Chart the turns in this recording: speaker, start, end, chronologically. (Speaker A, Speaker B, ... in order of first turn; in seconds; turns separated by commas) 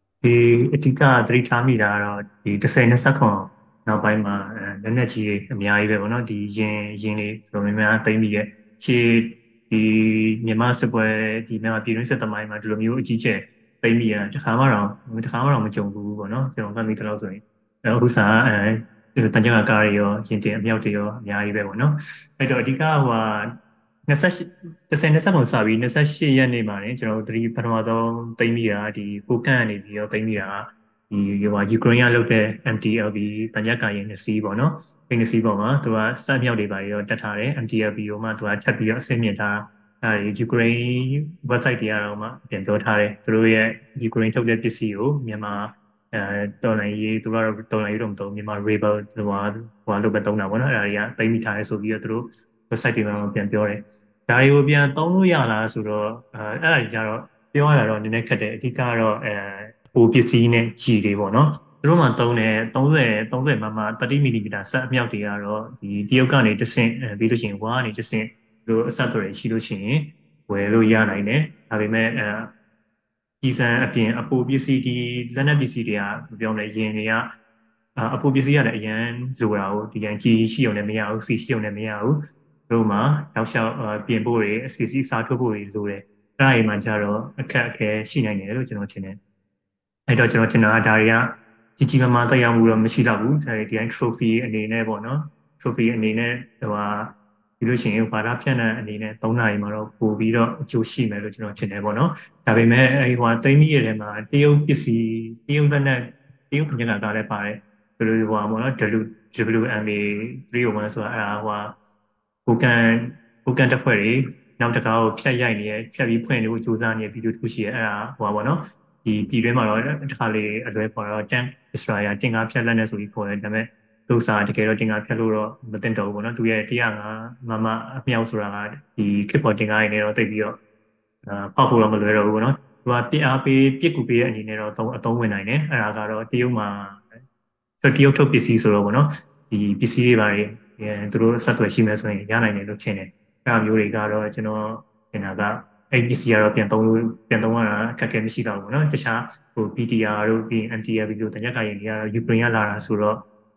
Speaker A: 0.2-72.5, Speaker A: 73.4-77.3, Speaker A: 78.0-89.2, Speaker A: 90.1-111.8, Speaker A: 112.5-130.6, Speaker A: 131.2-137.1, Speaker A: 137.8-153.2